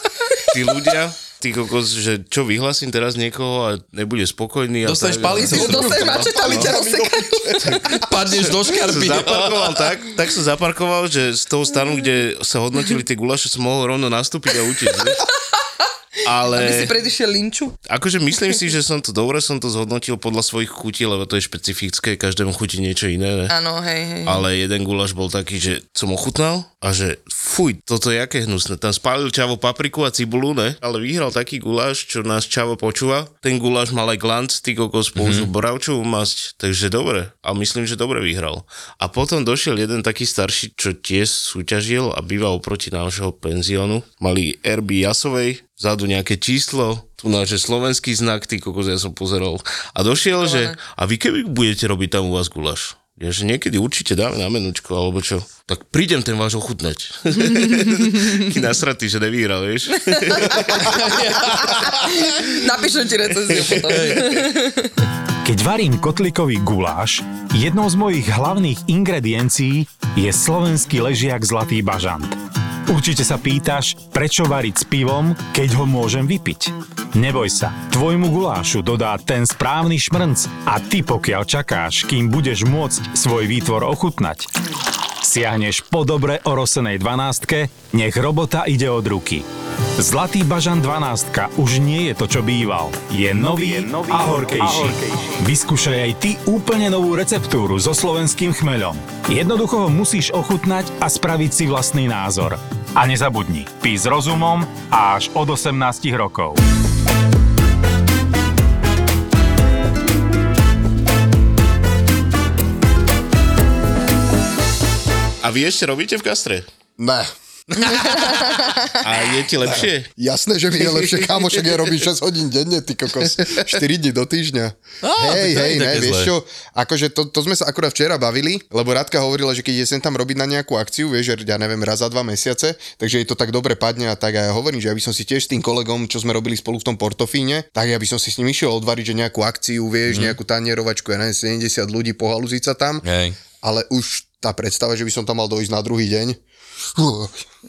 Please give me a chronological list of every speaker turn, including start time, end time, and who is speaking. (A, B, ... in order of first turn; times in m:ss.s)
0:00.5-0:06.7 A
0:04.8-0:06.3 B
0:05.4-0:07.9 C
0:06.0-0:07.8 D
0:07.9-0:09.8 B
0:08.4-0:15.2 A
0:16.2-0:16.9 A
0:16.5-0:17.8 C
0:17.9-0:23.5 A
0:23.5-0:24.4 C
0:24.3-1:01.0 A
0:35.2-0:35.5 B
0:50.4-0:50.8 C
0:57.5-0:58.4 C
1:00.0-1:05.0 C
1:00.8-1:02.2 B
1:03.5-1:04.3 A
1:05.4-1:12.4 E
1:12.9-1:24.5 E
1:25.2-1:29.5 E
1:30.0-1:46.6 E
1:55.4-1:56.7 A
1:57.0-1:57.3 D
1:57.9-1:59.0 C
1:57.9-1:58.2 B
1:59.0-2:00.1 A
1:59.7-2:23.0 D
2:05.0-2:06.3 B
2:20.1-2:20.4 B
2:23.0-2:23.4 B
2:23.6-2:26.4 D
2:26.9-2:27.4 D